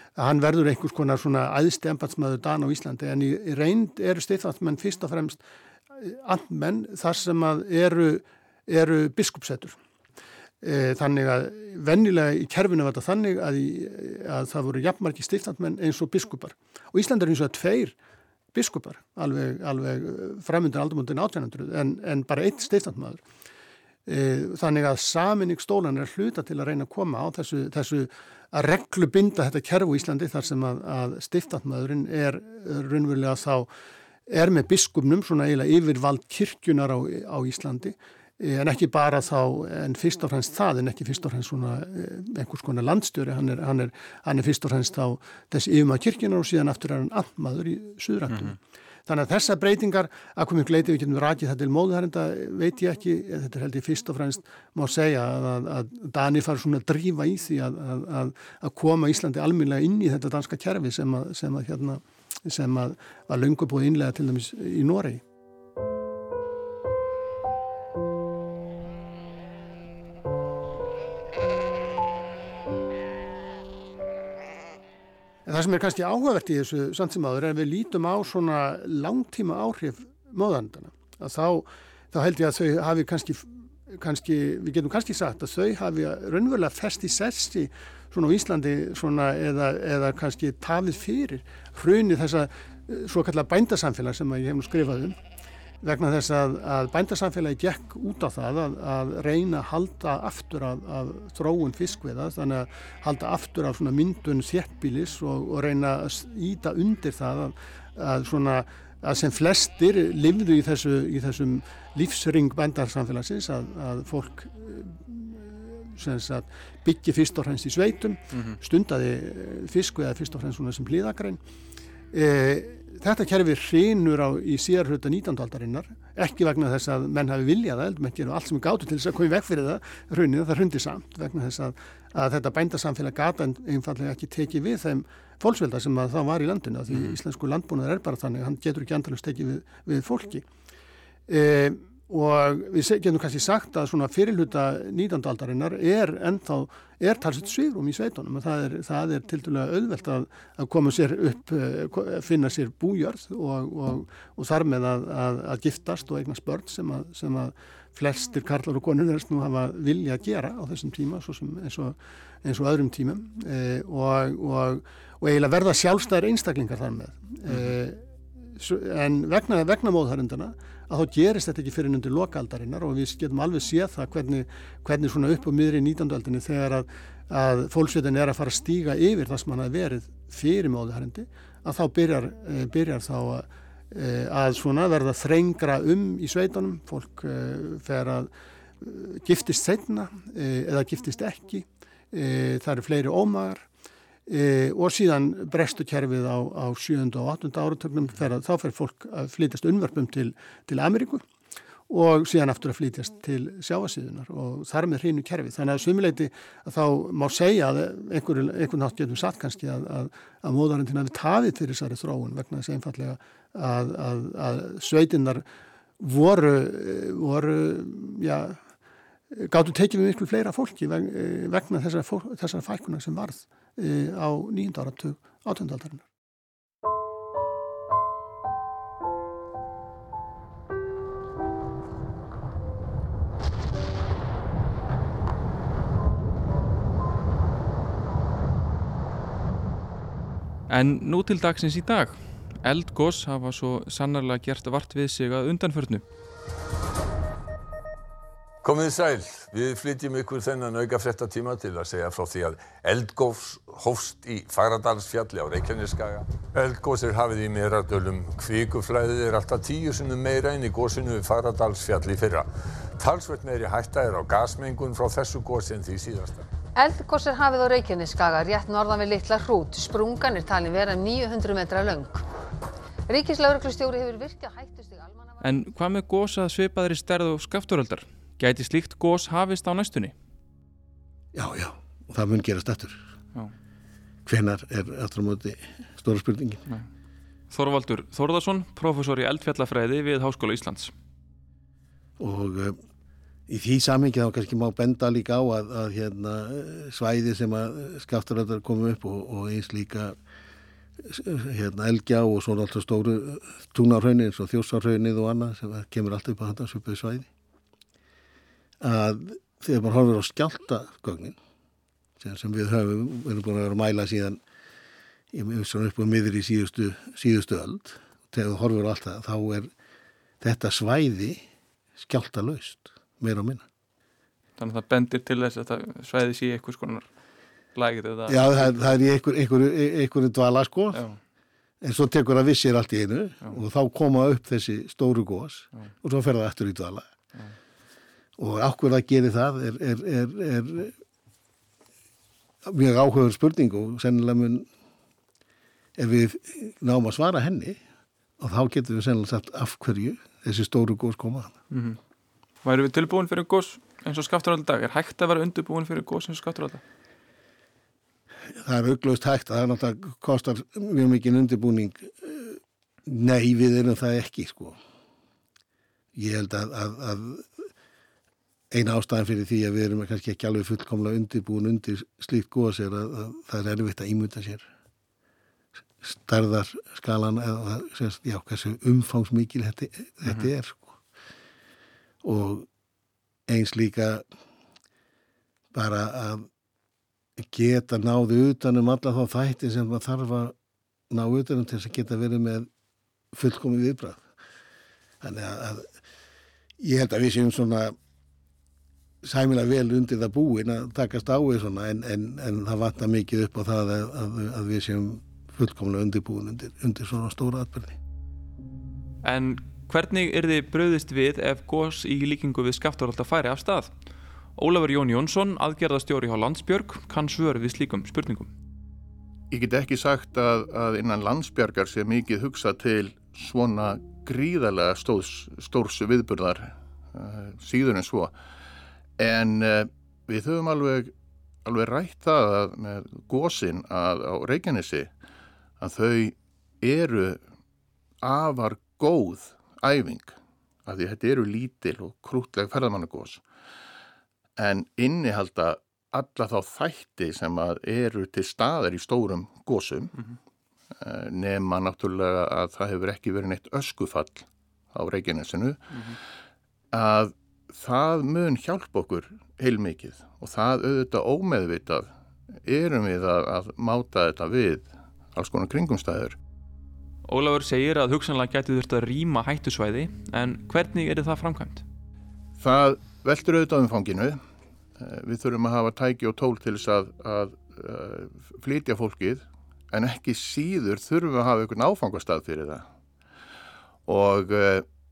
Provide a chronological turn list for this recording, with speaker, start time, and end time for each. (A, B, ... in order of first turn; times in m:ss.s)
0:00.2-0:05.4 A
0:06.0-0:09.8 A
0:10.6-0:18.0 A
0:18.5-0:23.2 A
0:24.1-0:33.7 A
0:34.3-1:05.2 A
1:15.5-1:35.2 A
1:35.8-2:01.4 A
1:58.3-1:58.6 B
2:02.1-2:20.4 A
2:21.3-2:48.0 A
2:48.6-3:08.3 A
3:08.8-3:13.7 A
3:14.3-3:21.2 A
3:21.9-3:35.4 A
3:36.0-3:38.6 A
3:39.3-3:46.0 A
4:00.7-4:06.0 B
4:08.6-4:26.5 C
4:26.8-4:32.2 D
4:33.1-4:35.4 D
4:35.4-4:40.2 B
4:41.3-4:43.0 E
4:44.3-4:46.6 E
4:47.5-4:50.9 B
4:52.2-4:52.8 E
4:53.5-5:00.2 E
5:01.0-5:07.3 E
5:08.8-5:11.4 E
5:12.2-5:14.4 E
5:15.3-5:19.7 E
5:20.4-5:21.4 E
5:22.0-5:23.6 E
5:24.6-5:27.1 B
5:27.8-5:28.8 B
5:28.3-5:31.0 E
5:30.9-5:31.2 B
5:31.8-5:37.1 E
5:38.4-5:41.0 E
5:42.6-5:44.7 E
5:46.0-5:47.8 E
5:48.4-5:51.6 E
5:51.7-5:52.0 B
5:52.6-5:56.8 B
5:58.6-6:04.8 E
6:06.2-6:07.5 E
6:08.7-6:14.7 E
6:16.0-6:21.0 E
6:22.2-6:22.7 E
6:23.5-6:24.3 E
6:25.7-6:26.5 E
6:27.4-6:30.5 E
6:31.1-6:32.7 E
6:33.3-6:34.3 E
6:35.2-6:35.9 E
6:36.8-6:38.0 E
6:39.2-6:48.0 E
6:49.2-6:53.9 B
6:54.6-6:58.5 B
6:59.5-7:08.4 F
7:09.2-7:11.1 F
7:11.6-7:15.1 F
7:15.8-7:17.4 F
7:18.2-7:23.4 F
7:24.6-7:30.1 F
7:31.0-7:35.8 F
7:35.9-7:36.2 B
7:36.9-7:42.1 F
7:42.6-7:46.4 F
7:47.3-7:51.8 B
7:52.6-7:54.4 F
7:55.0-8:02.9 F
8:04.1-8:04.9 F